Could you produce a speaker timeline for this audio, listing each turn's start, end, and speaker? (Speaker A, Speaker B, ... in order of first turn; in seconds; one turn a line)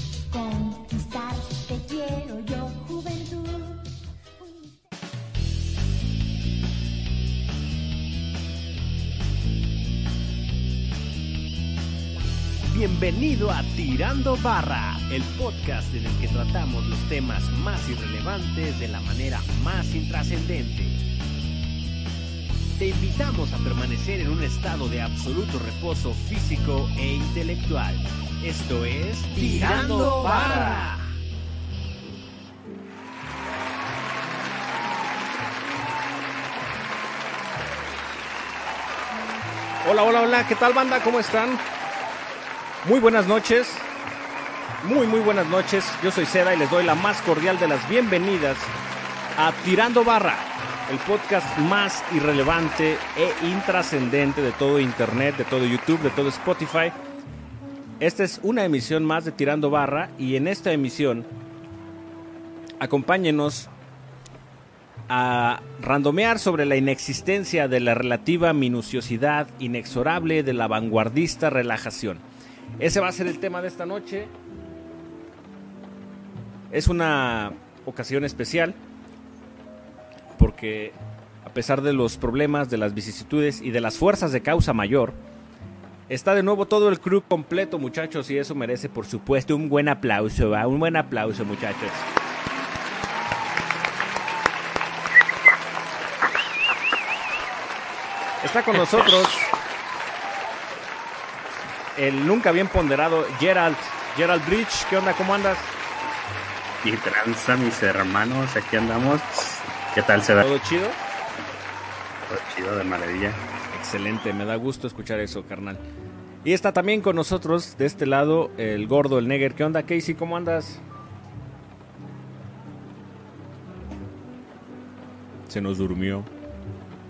Speaker A: 0.3-3.9
Speaker A: 4.4-4.8
Speaker B: 12.7-21.0
Speaker C: 14.3-14.6
Speaker C: 15.5-19.1
Speaker C: 19.6-20.8
Speaker B: 22.8-30.9
Speaker C: 25.0-26.3
Speaker C: 27.0-27.9
Speaker C: 28.4-30.9
Speaker C: 39.8-41.6
Speaker C: 42.8-43.9
Speaker C: 44.8-48.7
Speaker C: 49.4-57.0
Speaker C: 58.0-61.3
Speaker C: 62.8-63.7
Speaker C: 65.1-72.2
Speaker C: 72.8-74.3
Speaker C: 76.7-78.8
Speaker C: 80.4-85.2
Speaker C: 86.1-92.1
Speaker C: 98.4-99.5
Speaker C: 102.0-105.7
Speaker D: 106.8-110.5
Speaker C: 110.4-111.0
Speaker D: 112.3-113.4
Speaker C: 113.7-115.8
Speaker C: 116.4-120.8
Speaker C: 125.5-126.3